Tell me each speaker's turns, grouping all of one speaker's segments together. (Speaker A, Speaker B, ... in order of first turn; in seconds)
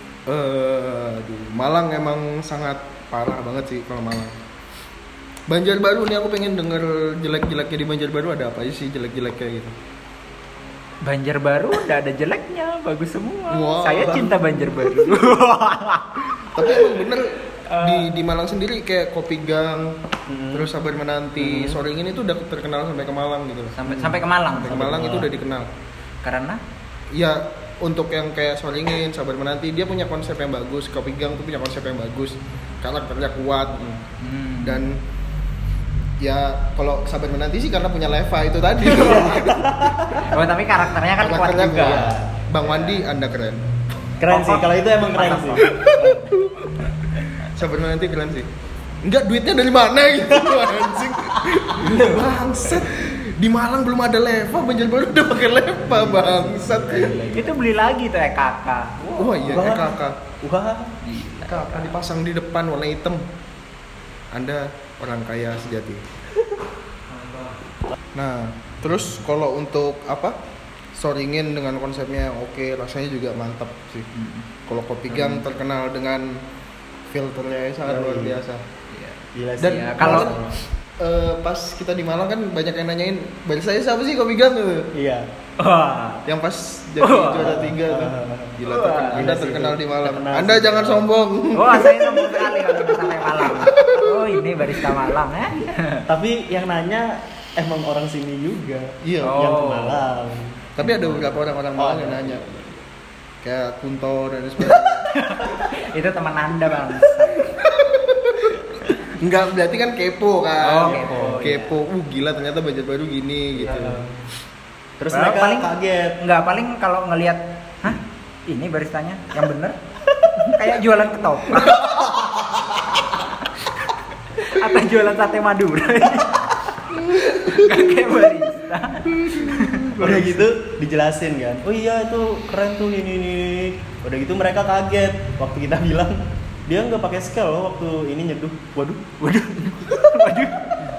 Speaker A: 0.3-4.3, 5.5-9.7, 13.5-14.4, 16.5-19.9, 20.5-23.8, 24.5-25.7, 27.1-33.9, 34.6-35.0, 36.2-40.2, 41.2-43.6, 45.6-48.5, 49.0-57.2, 59.2-60.2, 61.4-63.2, 64.3-66.0, 68.1-70.3, 70.9-74.1, 74.7-76.4, 77.1-78.6, 79.6-80.3, 81.0-84.9, 86.2-95.0, 99.0-99.4, 100.8-102.4, 103.4-105.0, 107.3-114.0, 127.2-127.8, 129.1-130.5
Speaker B: 11.0-17.0, 17.7-18.1, 21.4-21.8, 23.7-25.1, 26.2-26.6, 34.2-34.8, 40.2-43.0, 44.2-45.6, 57.3-59.7, 61.0-61.9, 74.1-74.5, 75.1-75.4, 78.9-80.3, 85.6-86.2, 87.0-87.6, 88.7-89.2, 91.5-96.0, 99.2-100.0, 100.8-101.4, 104.7-107.5, 110.6-111.7, 115.1-119.8, 120.4-121.9, 124.4-130.1, 139.2-140.7
Speaker C: 20.3-20.7, 23.9-25.3, 38.9-40.2, 41.8-42.3, 44.2-46.3, 50.3-50.6, 51.4-52.3, 55.9-57.6, 59.5-60.9, 67.1-67.6, 77.8-78.3, 79.3-80.5, 84.9-85.3, 87.3-88.6, 89.1-91.1, 96.1-100.7, 101.8-102.7, 110.8-111.5, 113.5-114.1, 115.0-116.2, 130.0-139.1